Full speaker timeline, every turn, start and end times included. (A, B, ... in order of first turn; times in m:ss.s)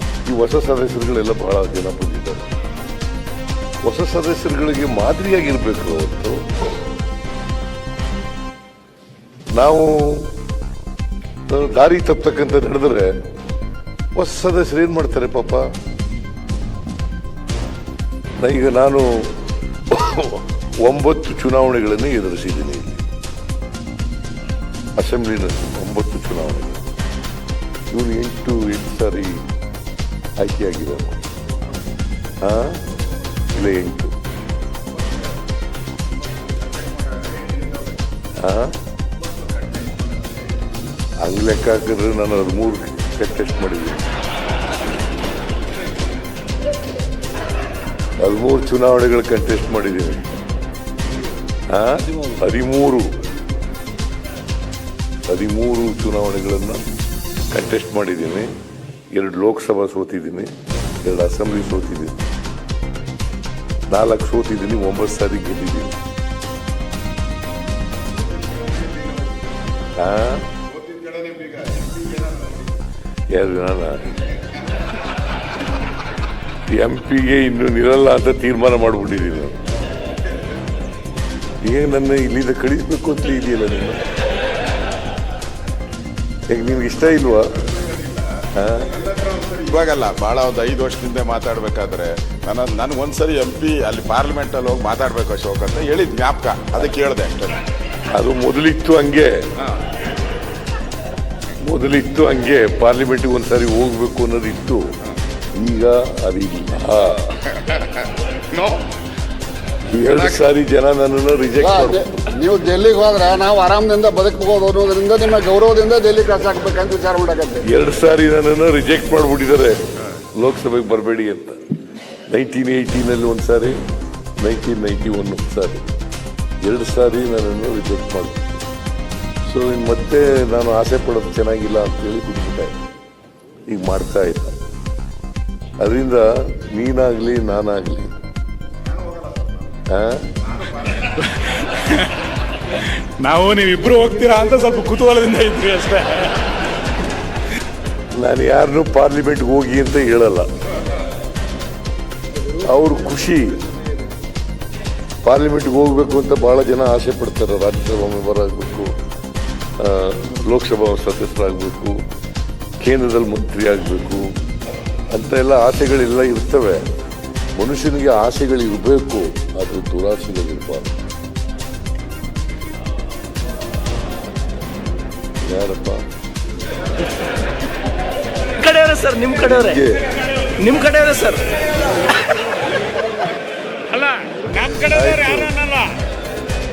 0:00.2-0:02.4 A
0:03.8-0:06.5 A
0:09.5-0:10.3 A
0:11.5-0:13.1 A
0:14.2-0:15.6 A
0:18.4-0:23.0 A
0:25.0-0:26.8 A
0:27.9-0:29.4 A
0:30.4-0:31.2 A
0:32.4-0:32.8 A
0:33.5-0:34.2 A
0:36.9-0:37.7 B
0:38.4-0:38.8 A
0:39.6-0:40.0 B
0:41.2-0:44.1 A
0:48.2-0:50.3 A
0:51.7-0:53.1 A
0:52.1-0:52.4 C
0:55.3-0:56.8 A
0:57.5-0:58.5 A
0:59.1-1:02.2 A
1:03.9-1:06.0 A
1:08.6-1:09.3 B
1:10.0-1:10.5 A
1:10.7-1:12.7 B
1:13.3-1:14.3 A
1:16.7-1:19.6 A
1:21.6-1:24.0 A
1:26.5-1:27.5 A
1:28.5-1:28.9 A
1:29.0-1:37.6 B
1:38.1-1:39.5 A
1:41.6-1:44.9 A
1:45.5-1:47.3 A
1:49.9-1:52.3 A
1:51.6-1:57.7 D
1:57.6-1:59.8 A
2:00.3-2:01.6 A
2:02.3-2:03.8 A
2:04.4-2:05.8 A
2:06.6-2:08.5 A
2:09.4-2:12.8 A
2:13.7-2:14.6 A
2:15.8-2:18.1 A
2:19.9-2:20.3 A
2:21.1-2:22.1 E
2:22.7-2:26.4 E
2:28.1-2:30.5 A
2:32.5-2:33.6 A
2:35.2-2:39.0 A
2:39.8-2:42.0 A
2:42.8-2:44.3 A
2:45.1-2:46.8 A
2:47.6-2:50.9 A
2:55.4-2:56.0 A
2:58.6-2:59.8 C
2:59.3-3:00.1 A
3:00.5-3:01.6 C
3:03.9-3:06.0 E
3:04.9-3:05.6 A